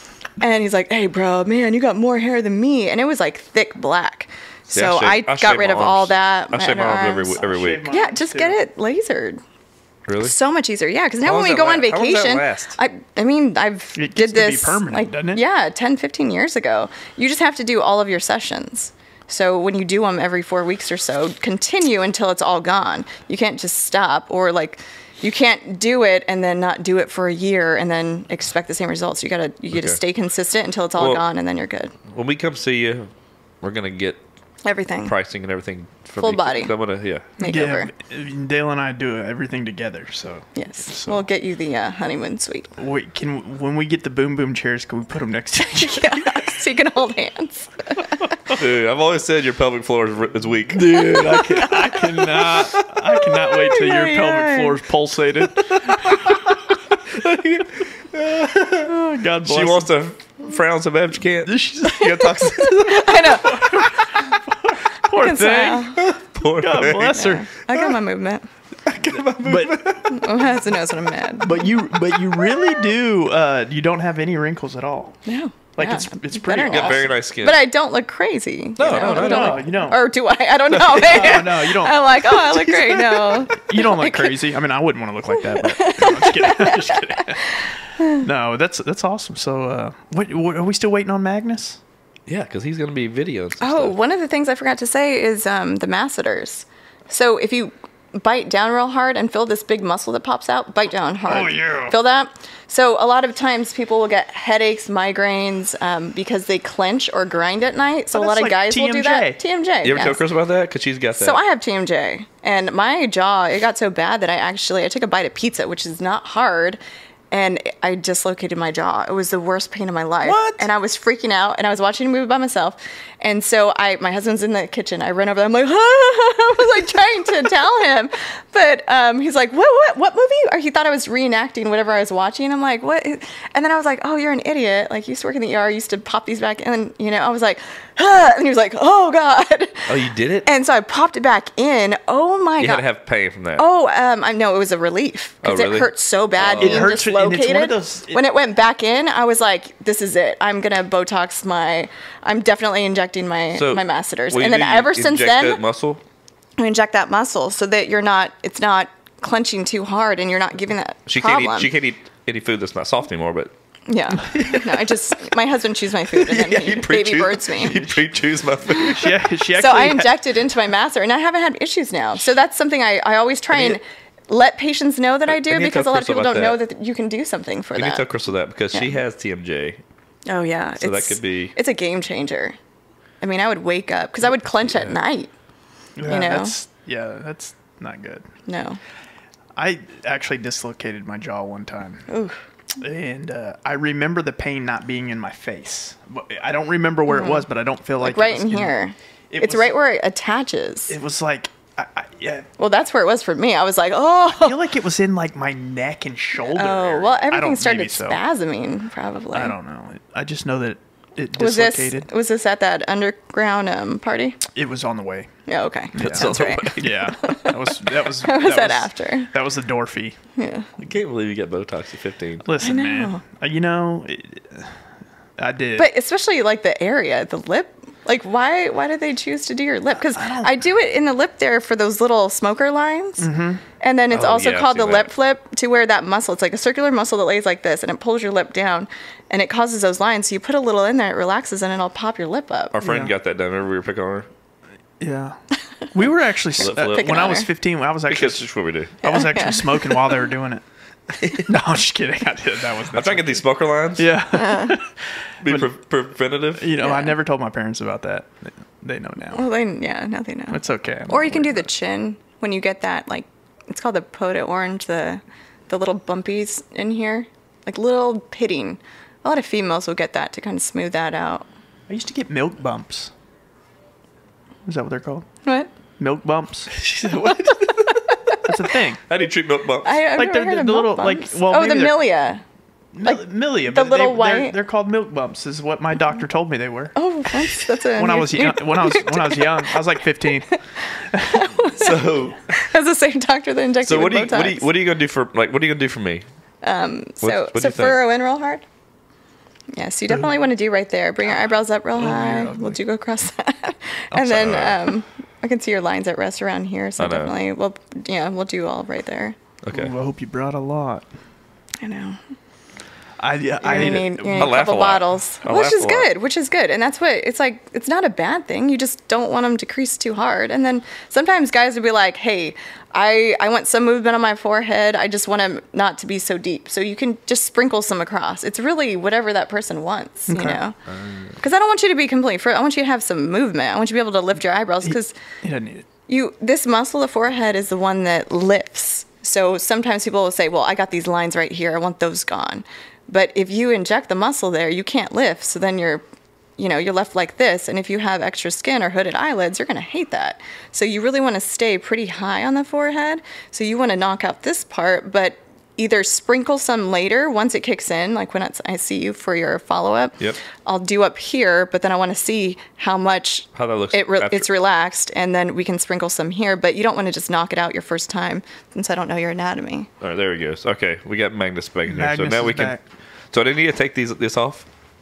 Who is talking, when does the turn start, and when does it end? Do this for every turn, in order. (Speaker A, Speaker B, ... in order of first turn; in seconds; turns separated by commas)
Speaker A: 0.4-9.4, Speaker B: 4.7-7.9, Speaker C: 7.4-8.6, Speaker B: 10.1-10.3, Speaker A: 10.2-31.9, Speaker B: 11.2-12.8, Speaker C: 13.9-15.4, Speaker B: 29.7-30.0, Speaker B: 31.0-31.2, Speaker B: 32.1-33.1, Speaker B: 33.6-34.2, Speaker A: 34.6-35.1, Speaker B: 35.0-37.3, Speaker A: 36.2-36.7, Speaker A: 37.4-37.9, Speaker C: 37.4-41.2, Speaker A: 40.5-42.7, Speaker C: 42.8-46.5, Speaker A: 45.8-48.2, Speaker B: 48.5-51.2, Speaker C: 50.7-56.4, Speaker A: 51.3-51.8, Speaker A: 53.6-54.7, Speaker B: 57.1-58.9, Speaker C: 58.8-59.9, Speaker B: 59.4-63.2, Speaker C: 61.4-62.8, Speaker A: 62.8-64.0, Speaker C: 63.4-66.0, Speaker A: 65.1-66.0, Speaker B: 66.0-67.3, Speaker C: 66.5-67.6, Speaker A: 66.8-68.5, Speaker B: 68.9-70.1, Speaker C: 69.1-70.0, Speaker A: 70.1-71.7, Speaker C: 71.4-75.2, Speaker A: 75.2-84.4, Speaker C: 75.8-77.1, Speaker B: 76.7-77.7, Speaker B: 78.8-79.7, Speaker C: 78.9-80.0, Speaker B: 80.7-81.3, Speaker C: 80.9-82.4, Speaker B: 82.5-83.2, Speaker C: 83.6-91.8, Speaker A: 85.5-88.2, Speaker B: 92.2-93.9, Speaker A: 93.6-110.2, Speaker C: 101.2-102.0, Speaker C: 108.1-109.4, Speaker B: 109.8-111.4, Speaker A: 111.1-116.8, Speaker A: 117.3-139.9, Speaker C: 120.2-120.7, Speaker B: 139.9-140.5, Speaker A: 140.4-142.8, Speaker B: 142.6-143.6, Speaker A: 143.6-155.6, Speaker B: 145.4-147.0, Speaker C: 146.6-148.2, Speaker B: 153.5-156.0, Speaker A: 156.6-161.7, Speaker B: 161.1-163.5, Speaker A: 163.9-167.9, Speaker B: 164.3-164.9, Speaker B: 166.2-169.1, Speaker C: 168.8-170.2, Speaker A: 169.6-178.1, Speaker B: 175.3-176.6, Speaker B: 177.7-179.8, Speaker A: 180.3-182.6, Speaker B: 180.8-181.5, Speaker A: 183.2-185.3, Speaker B: 184.4-185.0, Speaker C: 186.0-188.2, Speaker A: 186.0-186.5, Speaker A: 188.5-188.8, Speaker C: 189.6-192.1, Speaker A: 192.1-192.4, Speaker C: 192.8-198.7, Speaker A: 197.1-197.5, Speaker A: 198.0-201.0, Speaker C: 199.3-199.8, Speaker C: 200.9-202.5, Speaker A: 202.6-204.6, Speaker C: 204.3-208.2, Speaker A: 206.5-209.6, Speaker C: 209.3-212.1, Speaker A: 211.4-214.4, Speaker C: 214.5-215.3, Speaker A: 215.5-219.3, Speaker C: 215.9-220.2, Speaker B: 216.0-217.1, Speaker A: 220.4-220.7, Speaker B: 220.8-222.4, Speaker C: 222.4-224.8, Speaker A: 222.6-223.2, Speaker C: 225.4-225.9, Speaker A: 225.8-233.3, Speaker C: 230.1-230.6, Speaker C: 233.2-233.6, Speaker A: 233.8-242.7, Speaker B: 234.1-235.1, Speaker B: 242.7-244.3, Speaker C: 242.8-243.1, Speaker C: 245.0-245.4, Speaker C: 245.9-250.6, Speaker B: 246.6-247.3, Speaker A: 246.6-247.5, Speaker B: 248.1-248.9, Speaker A: 249.0-249.9, Speaker B: 251.2-251.4, Speaker C: 251.4-255.7, Speaker B: 252.9-254.1, Speaker A: 254.3-254.7, Speaker B: 255.4-256.6, Speaker C: 256.5-259.4, Speaker A: 256.8-257.1, Speaker A: 259.3-271.4, Speaker C: 260.5-261.7, Speaker C: 271.9-273.1, Speaker C: 274.6-275.3, Speaker C: 276.0-276.8, Speaker B: 276.8-277.7, Speaker A: 277.9-278.4, Speaker C: 278.4-279.0, Speaker B: 279.1-280.0, Speaker A: 279.8-282.4, Speaker C: 280.2-282.0, Speaker C: 282.9-286.9, Speaker A: 283.0-284.5, Speaker A: 286.9-289.7, Speaker C: 287.9-291.5, Speaker A: 290.5-294.7, Speaker B: 291.7-292.4, Speaker B: 293.8-296.2, Speaker A: 296.6-298.6, Speaker B: 297.2-298.0, Speaker A: 299.7-309.4, Speaker C: 301.9-302.8, Speaker B: 304.1-304.8, Speaker B: 307.0-307.3, Speaker B: 309.6-309.9, Speaker C: 309.7-311.1, Speaker A: 311.8-312.2, Speaker C: 313.2-314.6, Speaker A: 313.6-330.8, Speaker B: 313.7-316.1, Speaker C: 330.3-330.6, Speaker B: 330.9-331.4, Speaker A: 331.4-335.1, Speaker C: 334.8-335.9, Speaker A: 336.1-346.0, Speaker A: 346.6-369.9, Speaker B: 363.5-364.5, Speaker B: 370.0-372.8, Speaker C: 371.9-372.8, Speaker B: 373.3-374.6